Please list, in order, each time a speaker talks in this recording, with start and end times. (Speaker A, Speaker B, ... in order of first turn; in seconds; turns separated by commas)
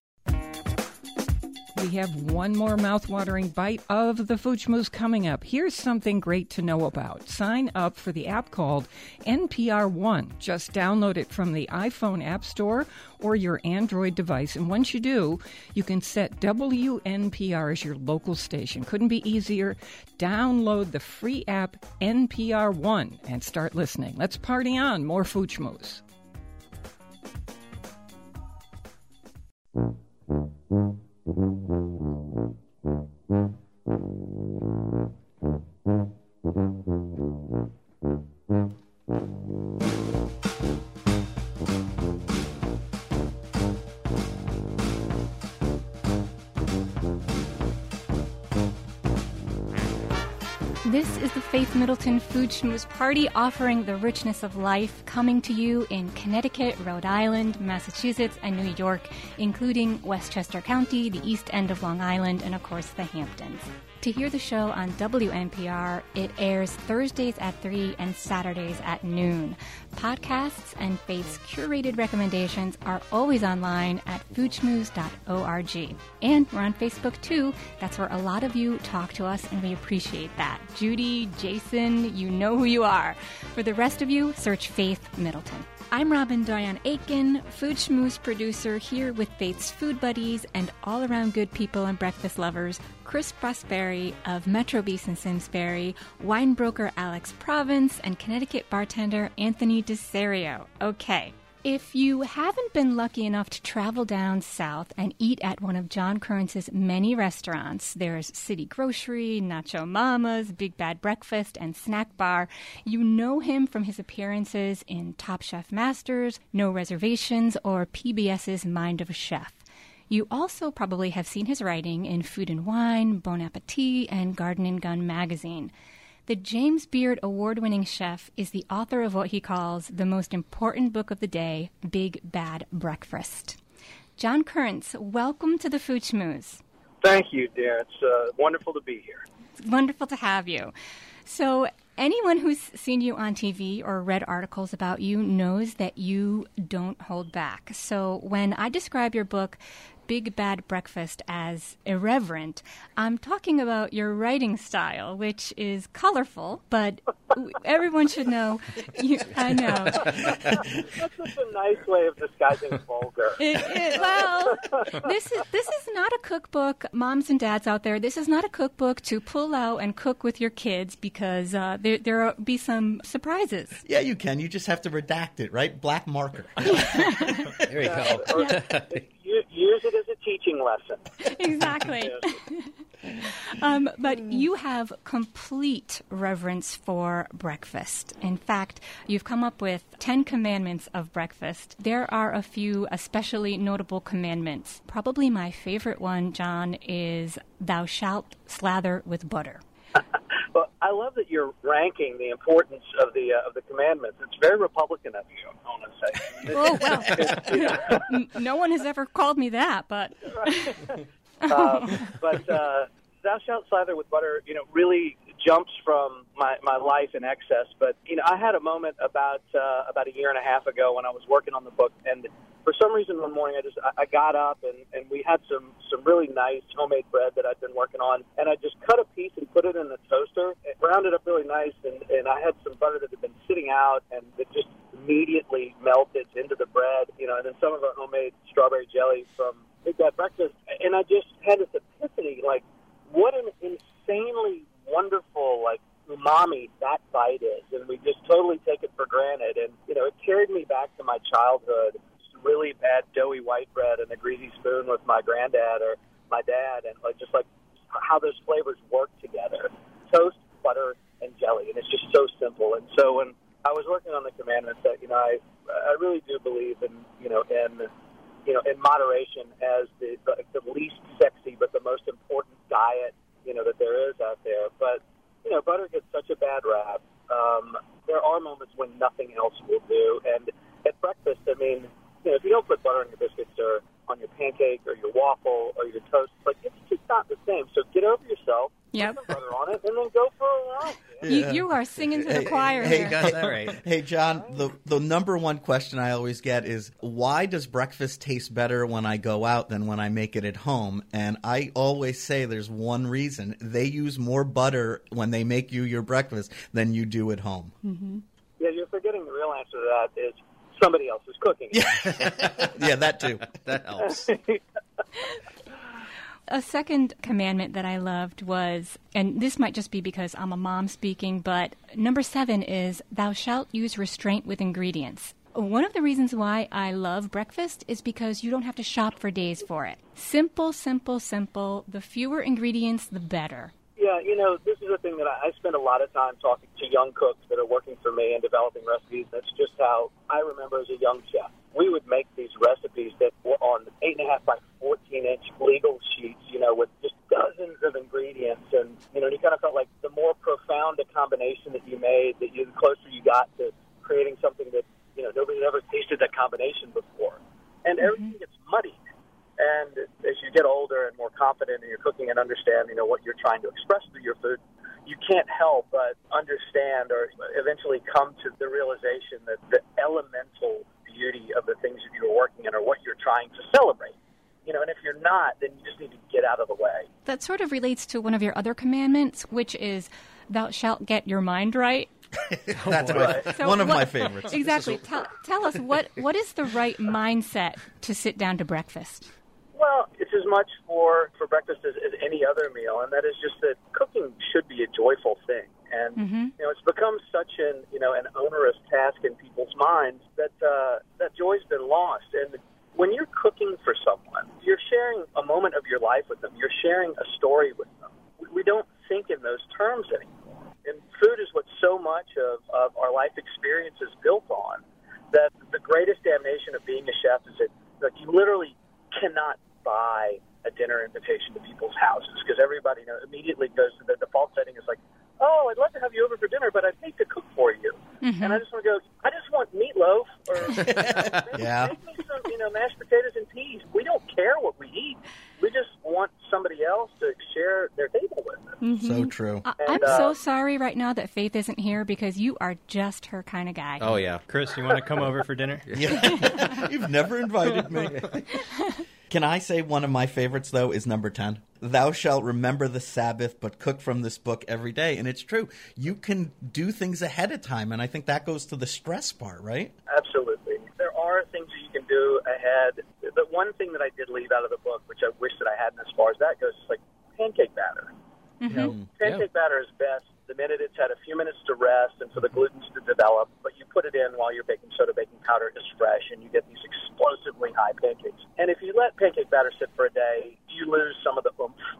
Speaker A: 1.8-26.0, Speaker B: 50.8-125.7, Speaker B: 126.3-133.6, Speaker B: 134.2-136.6, Speaker C: 137.0-139.2, Speaker B: 139.6-140.7, Speaker B: 141.2-160.4, Speaker D: 159.7-160.7, Speaker C: 160.8-164.8, Speaker B: 163.4-173.8, Speaker D: 173.8-177.2, Speaker B: 176.7-177.5, Speaker E: 177.7-179.0, Speaker C: 177.8-181.2, Speaker B: 181.2-199.6, Speaker C: 181.9-182.4, Speaker C: 200.5-208.0, Speaker B: 206.5-210.8, Speaker C: 210.3-267.9, Speaker B: 211.4-212.1, Speaker C: 268.5-291.4, Speaker B: 288.9-289.2, Speaker B: 291.2-293.2, Speaker D: 291.2-307.8, Speaker E: 292.8-293.8, Speaker B: 307.9-308.2, Speaker C: 308.6-312.6, Speaker D: 311.7-313.5, Speaker E: 312.1-312.4, Speaker E: 313.4-314.3, Speaker C: 314.1-314.6, Speaker B: 316.5-333.7, Speaker C: 334.0-359.0, Speaker B: 358.0-358.3, Speaker C: 359.6-377.1, Speaker B: 377.2-382.1, Speaker D: 382.5-385.1, Speaker F: 382.8-383.3, Speaker C: 383.1-383.5, Speaker B: 383.4-389.3, Speaker C: 389.8-438.8, Speaker B: 396.2-396.5, Speaker B: 428.2-428.6, Speaker D: 430.8-432.0, Speaker B: 438.8-444.0, Speaker D: 439.0-439.7, Speaker C: 439.8-440.4, Speaker E: 444.0-444.4, Speaker F: 444.5-446.1, Speaker D: 445.9-448.6, Speaker B: 446.3-446.8, Speaker B: 448.5-449.0, Speaker D: 449.3-459.9, Speaker C: 460.1-468.1, Speaker B: 468.6-468.9, Speaker D: 468.7-469.4, Speaker C: 469.1-481.8